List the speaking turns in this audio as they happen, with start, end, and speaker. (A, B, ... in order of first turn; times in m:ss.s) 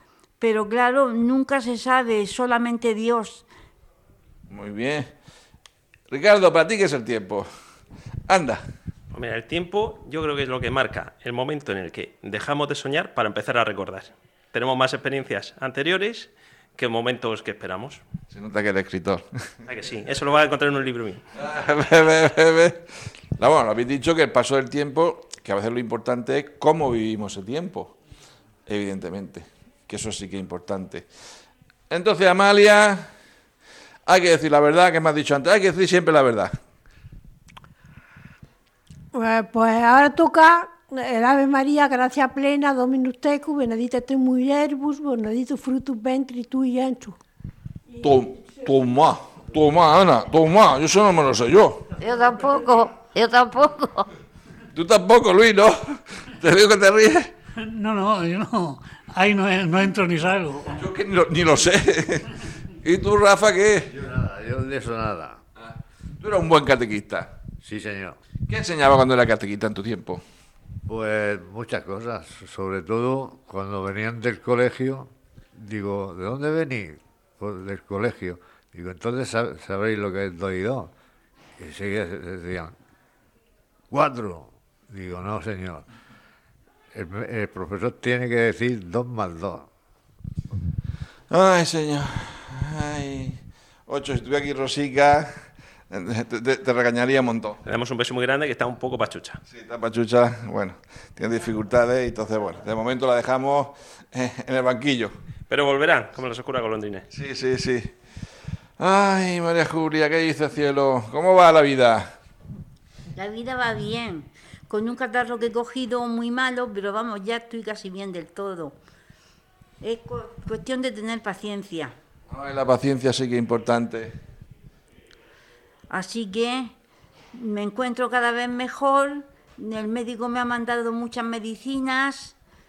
0:00.4-0:03.5 A
0:04.5-0:05.1 B
0:06.1-0:07.4 B
0:08.3-0:08.6 B
0:09.1-0:18.0 C
0:18.3-0:19.2 B
0:19.7-0:21.2 C
0:21.4-0:22.8 B
0:23.4-0:28.0 B
0:28.7-0:31.1 B
0:31.9-0:33.1 B
0:34.0-0:36.5 B
0:39.1-0:47.2 D
0:48.0-0:51.8 B
0:52.0-0:54.1 E
0:54.7-0:57.3 B
0:57.6-1:00.8 F
1:00.7-1:02.3 B
1:02.8-1:03.9 B
1:03.9-1:05.4 G
1:05.6-1:07.3 B
1:07.6-1:08.2 G
1:08.5-1:10.2 B
1:10.9-1:20.9 G
1:21.6-1:22.7 G
1:23.9-1:25.8 G
1:26.9-1:29.7 G
1:31.3-1:35.3 B
1:35.9-1:37.6 B
1:37.6-1:39.4 C
1:39.5-1:45.1 B
1:45.5-1:47.0 C
1:47.1-1:47.9 B
1:48.8-1:52.1 B
1:53.1-1:58.8 A
1:59.8-2:01.9 A
2:02.3-2:04.1 B
2:05.9-2:06.7 A
2:07.3-2:12.4 A